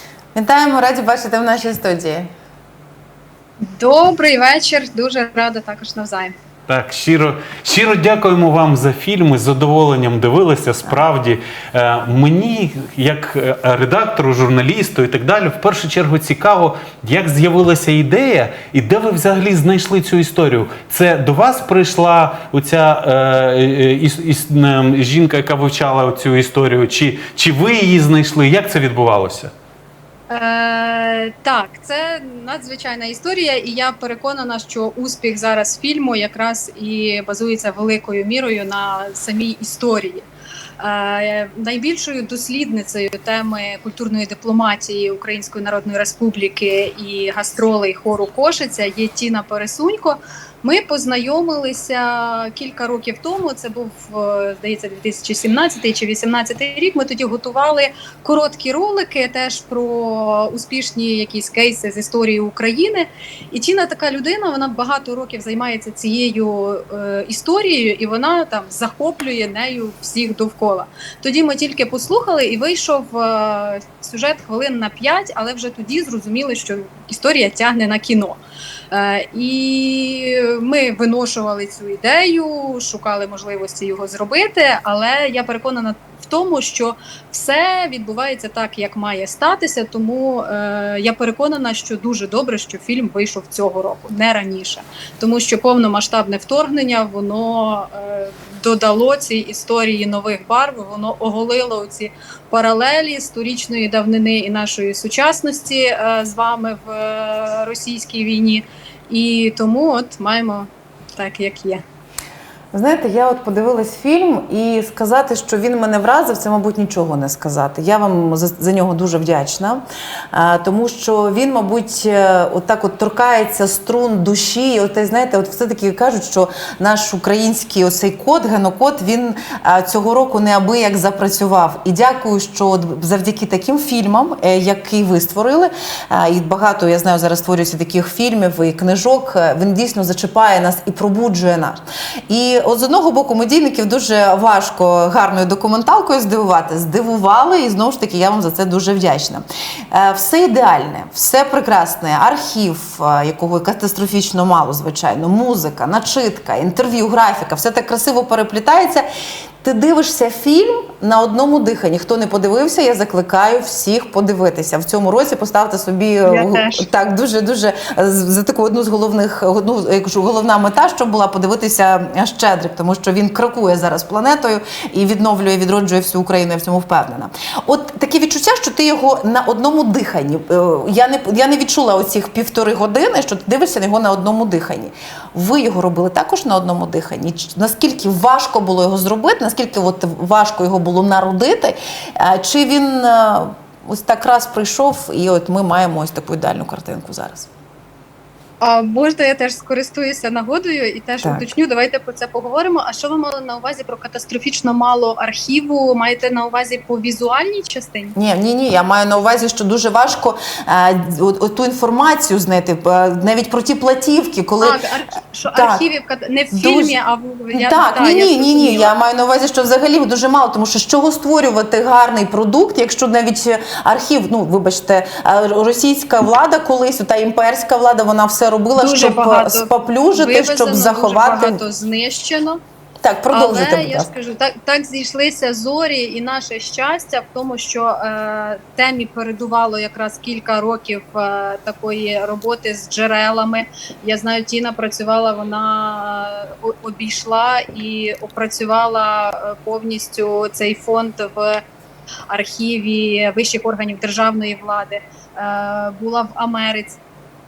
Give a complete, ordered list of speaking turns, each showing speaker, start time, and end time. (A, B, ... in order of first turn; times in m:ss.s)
0:00.3-0:02.3 A
0:03.6-0:06.3 B
0:06.7-0:29.5 C
0:30.3-0:40.3 B
0:40.8-1:18.4 B
1:18.9-1:51.8 B
1:52.7-2:39.0 A
2:39.6-3:17.5 A
2:46.2-2:46.8 B
3:18.6-3:28.2 B
3:21.2-3:21.5 A
3:28.2-3:34.8 A
3:34.6-3:38.9 B
3:35.5-3:35.8 A
3:36.5-3:37.0 A
3:37.5-3:51.6 A
3:48.8-3:52.6 B
3:53.0-3:54.1 A
3:53.3-4:11.6 B
4:12.3-4:17.0 B